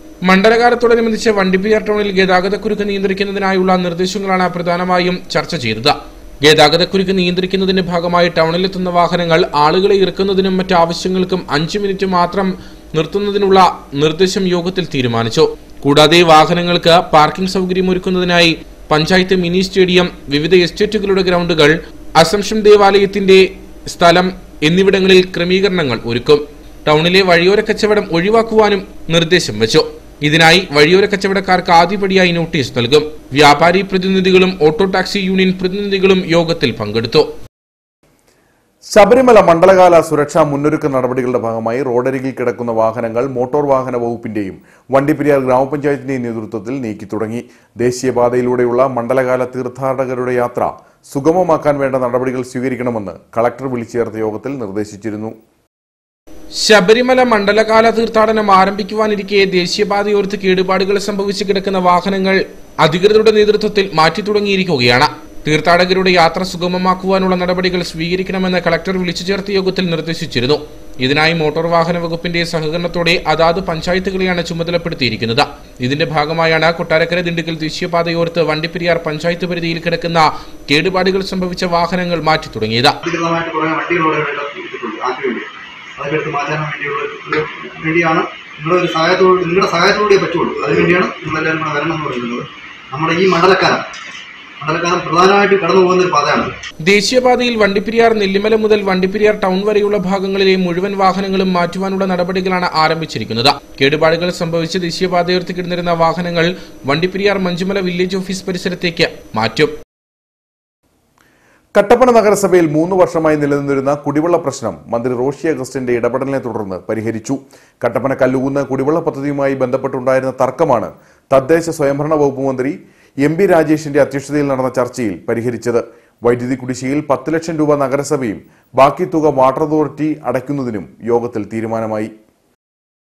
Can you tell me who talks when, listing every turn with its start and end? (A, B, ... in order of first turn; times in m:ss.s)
0:00.3-0:37.2 A
0:38.9-0:55.4 B
0:56.6-1:22.9 A
1:23.0-1:33.8 C
1:34.6-1:36.5 C
1:36.8-1:49.7 A
1:51.8-2:12.1 B